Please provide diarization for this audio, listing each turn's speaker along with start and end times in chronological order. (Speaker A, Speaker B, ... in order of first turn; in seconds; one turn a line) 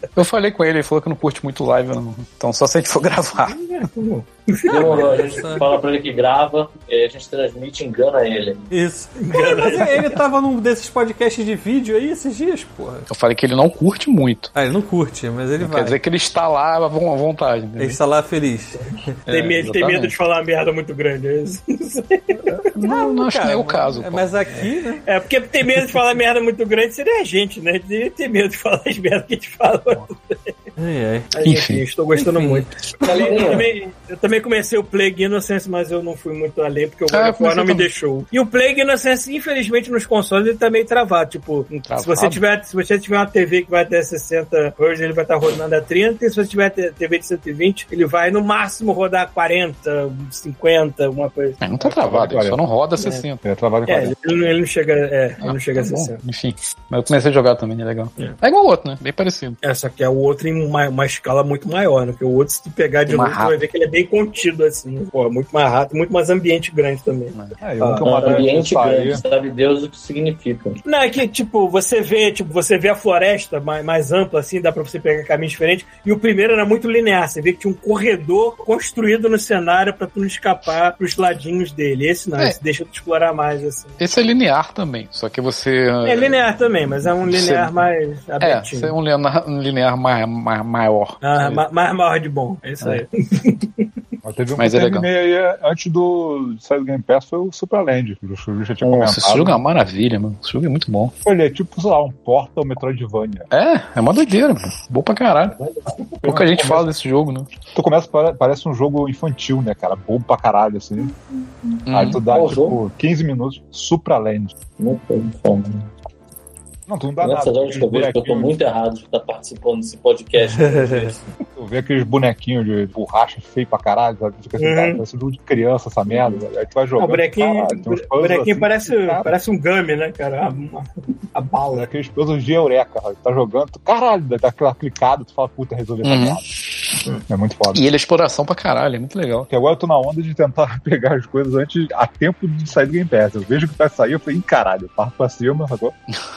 Speaker A: 0.1-3.6
Speaker B: 3.5-5.3
Speaker C: 4.7-8.7
Speaker D: 4.7-5.7
Speaker D: 8.7-13.1
Speaker B: 9.2-10.1
Speaker A: 13.1-14.5
Speaker D: 14.5-16.0
Speaker A: 15.6-18.0
Speaker D: 17.8-19.3
Speaker B: 19.3-22.4
Speaker A: 19.3-20.1
Speaker A: 22.7-24.3
Speaker D: 22.8-25.1
Speaker B: 25.0-30.6
Speaker D: 30.8-31.3
Speaker B: 31.3-51.6
Speaker A: 31.4-31.8
Speaker D: 32.2-32.6
Speaker C: 33.0-33.7
Speaker A: 37.1-37.9
Speaker A: 41.8-42.4
Speaker A: 51.6-53.4
Speaker E: 51.8-52.6
Speaker E: 53.4-54.1
Speaker B: 53.9-56.2
Speaker A: 55.4-59.6
Speaker B: 59.6-68.4
Speaker A: 63.1-63.6
Speaker E: 67.6-69.2
Speaker C: 68.0-70.8
Speaker B: 70.8-84.0
Speaker A: 84.0-86.4
Speaker B: 86.0-88.9
Speaker A: 87.2-87.7
Speaker A: 88.4-91.6
Speaker B: 91.2-93.9
Speaker E: 94.2-99.6
Speaker A: 94.5-95.1
Speaker A: 98.8-101.1
Speaker E: 101.2-103.5
Speaker A: 103.5-105.5
Speaker B: 105.7-106.2
Speaker E: 106.2-106.9
Speaker A: 106.2-107.5
Speaker E: 107.7-111.2
Speaker A: 111.9-112.2
Speaker E: 111.9-114.5
Speaker C: 112.2-112.8
Speaker C: 114.8-115.9
Speaker E: 116.9-118.6
Speaker C: 117.2-121.3
Speaker D: 120.5-121.1
Speaker E: 121.6-129.3
Speaker B: 124.6-125.0
Speaker B: 127.0-131.9
Speaker E: 131.7-136.4
Speaker A: 136.0-136.4
Speaker E: 137.3-137.8
Speaker A: 137.7-139.5
Speaker E: 139.5-145.9